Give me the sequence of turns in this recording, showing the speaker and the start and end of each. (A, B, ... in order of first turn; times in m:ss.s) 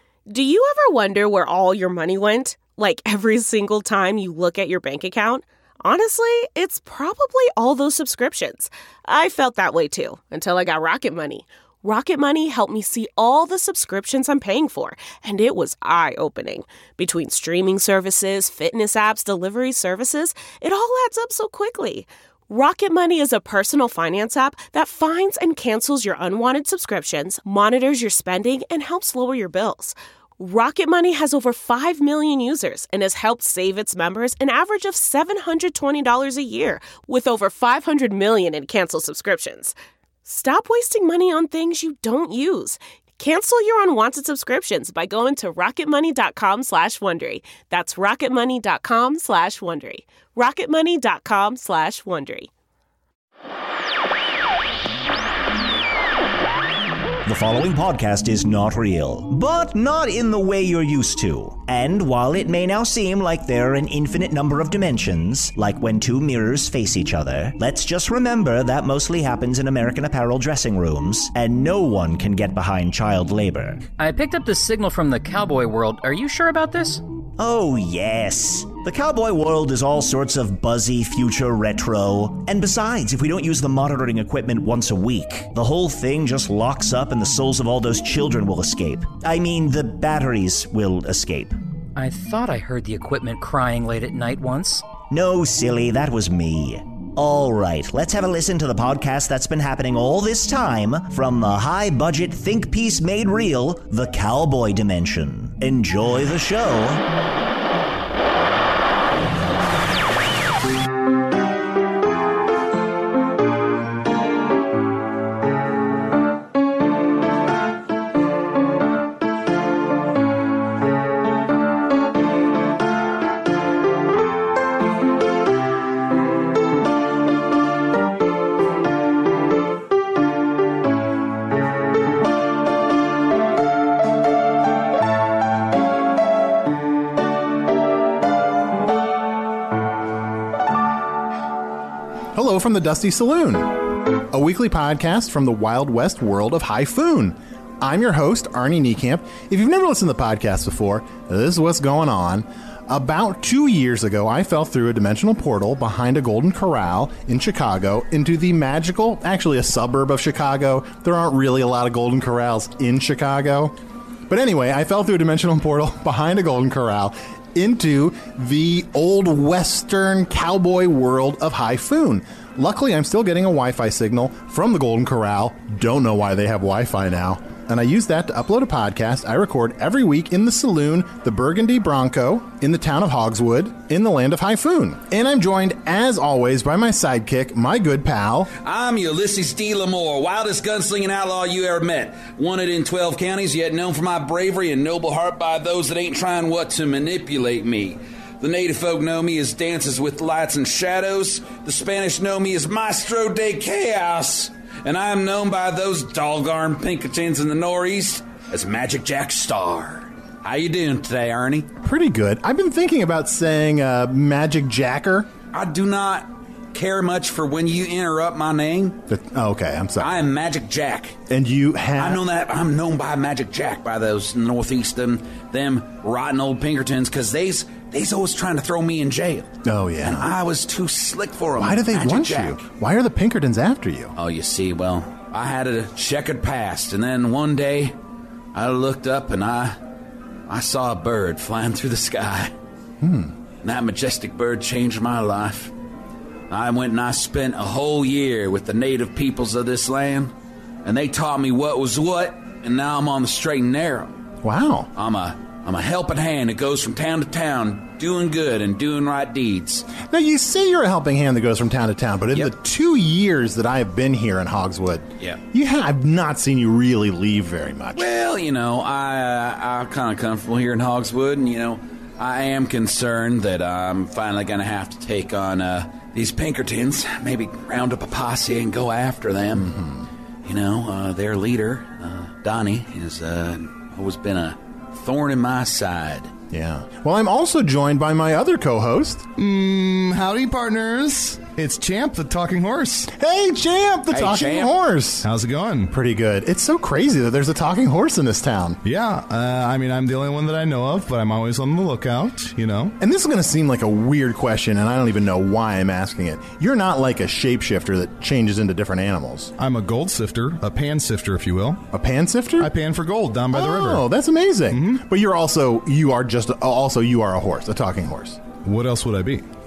0:00.3-0:52.5 A
0:57.2-1:13.9 B
1:14.0-1:17.0 C
1:17.4-1:31.6 B
1:32.0-1:34.8 C
1:35.1-1:47.0 B
2:22.3-2:43.7 D
2:44.3-3:08.5 D
3:08.6-3:31.7 E
3:31.8-3:35.3 D
3:35.5-3:39.0 E
3:39.1-3:40.1 D
3:40.0-3:41.2 E
3:41.3-3:42.2 D
3:42.0-3:49.5 E
3:49.6-3:50.3 D
3:50.0-3:52.6 E
3:51.6-3:54.1 D
3:54.2-3:57.9 E
3:58.5-3:59.8 E
4:00.5-4:02.5 E
4:03.0-4:03.3 D
4:03.6-4:05.7 E
4:06.5-4:10.3 E
4:10.8-4:14.1 E
4:14.4-4:14.9 D
4:15.0-4:19.9 E
4:20.0-4:28.1 D
4:28.0-4:39.7 E
4:39.5-4:40.1 D
4:40.4-4:46.3 E
4:46.5-4:49.3 D
4:49.4-4:53.1 F
4:53.1-4:55.3 D
4:54.1-4:54.7 E
4:55.2-4:55.9 F
4:55.9-4:58.8 D
4:58.8-5:03.0 F
5:03.0-5:09.5 D
5:09.6-5:11.8 F
5:11.9-5:12.7 D
5:12.6-5:14.0 F
5:13.5-5:18.4 D
5:14.7-5:15.0 F
5:18.6-5:19.4 F